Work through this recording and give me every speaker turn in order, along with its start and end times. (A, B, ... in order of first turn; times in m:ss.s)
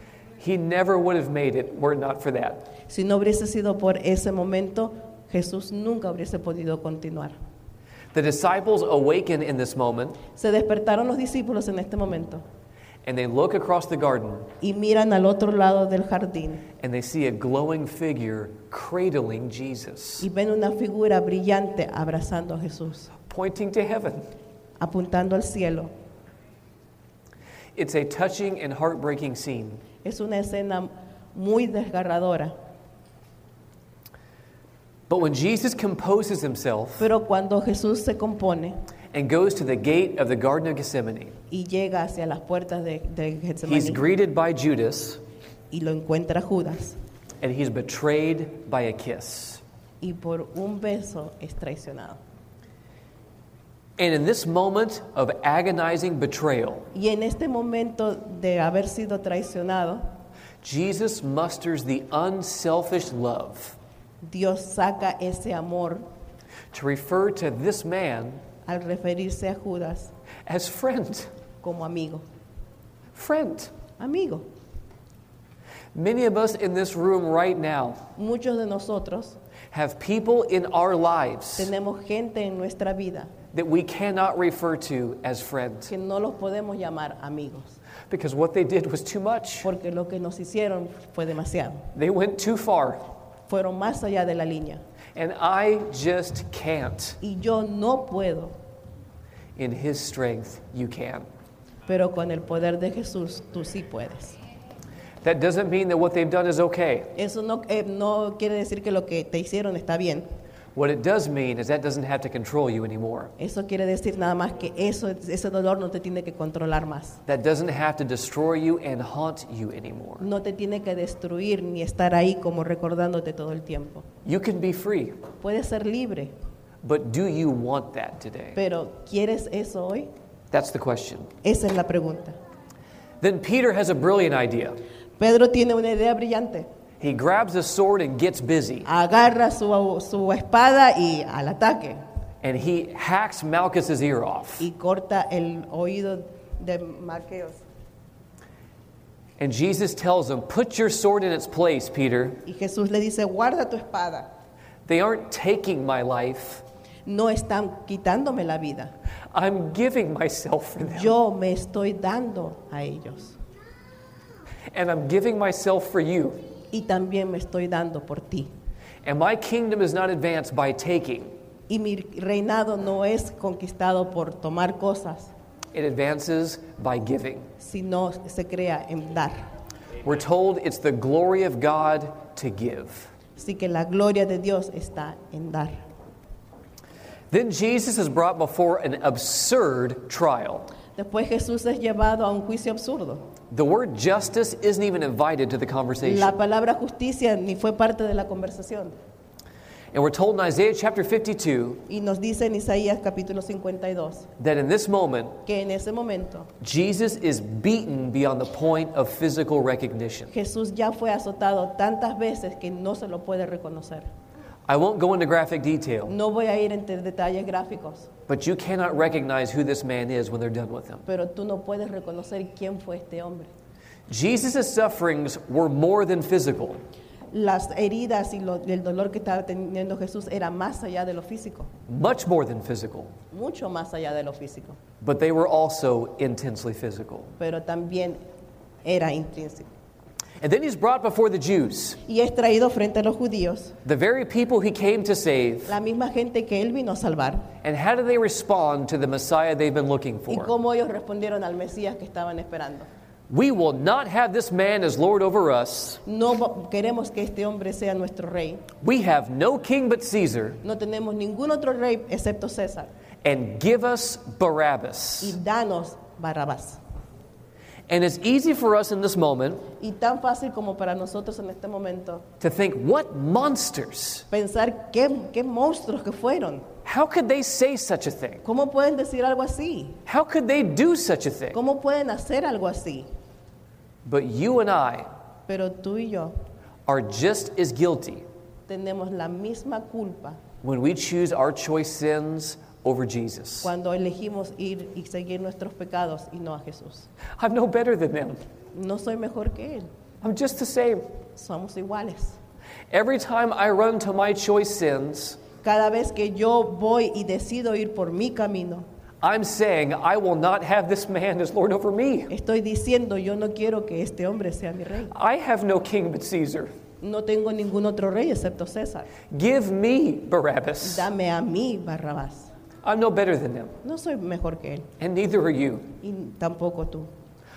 0:00.4-0:02.7 A
0:02.9-0:07.4 B
0:08.1-0:10.2 A
0:10.3-0:12.4 B
0:13.0-0:14.5 A
0:14.6-0:16.7 B
0:16.8-0:20.3 A
0:20.2-0:23.1 B
0:23.2-0:24.3 A
0:24.8-0:25.9 B
0:27.8-0:29.8 A
0:30.0-0:32.5 B
0:35.1-0:37.1 A
0:37.0-0:38.8 B
0:39.1-0:41.3 A
0:41.5-0:44.0 B
0:43.6-0:45.2 A
0:45.7-0:47.0 B
0:47.4-0:49.6 A
0:50.0-0:52.2 B
0:54.0-0:56.9 A
0:56.9-1:00.0 B
1:00.6-1:03.8 A
1:04.2-1:06.0 B
1:06.7-1:08.4 A
1:08.6-1:10.1 B
1:10.5-1:11.3 A
1:11.6-1:12.2 B
1:13.1-1:13.7 A
1:14.0-1:14.4 B
1:15.9-1:18.0 A
1:18.2-1:19.4 B
1:19.7-1:21.7 A
1:21.6-1:23.3 B
1:23.5-1:25.9 A
1:25.9-1:27.8 B
1:28.1-1:29.7 A
1:29.6-1:31.9 B
1:31.9-1:33.0 A
1:33.5-1:34.8 B
1:35.2-1:37.2 A
1:37.2-1:38.5 B
1:39.6-1:41.2 A
1:41.9-1:44.4 B
1:45.2-1:47.1 A
1:47.1-1:50.2 B
1:50.7-1:53.3 A
1:53.4-1:57.2 B
1:57.3-2:00.3 A
2:00.2-2:04.0 B
2:04.2-2:05.2 A
2:05.4-2:06.3 B
2:06.8-2:08.6 A
2:08.5-2:10.1 B
2:10.5-2:11.3 A
2:11.4-2:12.4 B
2:13.2-2:14.8 A
2:15.2-2:16.7 B
2:17.0-2:18.9 A
2:18.8-2:22.0 B
2:22.4-2:24.6 A
2:24.6-2:27.6 B
2:29.4-2:32.4 A
2:32.4-2:34.3 B
2:34.8-2:36.6 A
2:37.0-2:38.9 B
2:39.3-2:41.1 A
2:40.9-2:43.4 B
2:44.7-2:46.4 A
2:46.7-2:48.5 B
2:49.0-2:51.3 A
2:51.7-2:55.3 B
2:55.7-2:57.5 A
2:57.6-2:59.5 B
3:00.0-3:03.1 A
3:03.4-3:05.8 B
3:07.3-3:10.7 A
3:10.9-3:13.3 B
3:13.5-3:16.3 A
3:16.0-3:18.9 B
3:19.9-3:21.8 A
3:21.9-3:24.3 B
3:24.4-3:25.4 A
3:25.4-3:26.5 B
3:26.6-3:30.3 A
3:30.3-3:34.1 B
3:34.7-3:36.1 A
3:36.1-3:38.1 B
3:38.3-3:41.0 A
3:41.0-3:43.5 B
3:44.1-3:46.8 A
3:47.3-3:51.7 B
3:51.9-3:53.1 A
3:53.3-3:54.8 B
3:55.0-3:57.3 A
3:57.4-3:58.2 B
3:58.8-3:59.7 B
4:00.4-4:02.0 A
4:02.0-4:03.8 B
4:03.8-4:05.8 A
4:05.7-4:07.5 B
4:07.6-4:10.5 A
4:10.3-4:12.9 B
4:13.3-4:16.0 A
4:16.0-4:18.7 B
4:18.8-4:20.6 A
4:20.6-4:22.9 B
4:23.2-4:25.4 A
4:25.2-4:26.8 B
4:27.9-4:29.7 A
4:29.8-4:32.2 B
4:32.4-4:34.2 A
4:34.3-4:36.7 B
4:36.8-4:38.4 A
4:38.4-4:40.0 B
4:40.0-4:41.6 A
4:41.5-4:43.1 B
4:44.0-4:45.1 A
4:45.5-4:46.3 B
4:46.9-4:48.2 A
4:48.7-4:50.4 B
4:50.6-4:53.7 A
4:53.6-4:57.1 B
4:57.4-4:58.4 A
4:58.7-4:59.9 B
5:00.2-5:01.1 A
5:01.4-5:02.4 B
5:02.9-5:05.4 A
5:05.6-5:08.8 B
5:09.2-5:12.3 A
5:12.3-5:15.1 B
5:15.1-5:16.7 A
5:17.0-5:19.1 B
5:19.3-5:21.1 A
5:20.8-5:22.5 B
5:22.8-5:23.7 A
5:23.8-5:24.9 B
5:25.0-5:25.9 A
5:26.0-5:27.1 B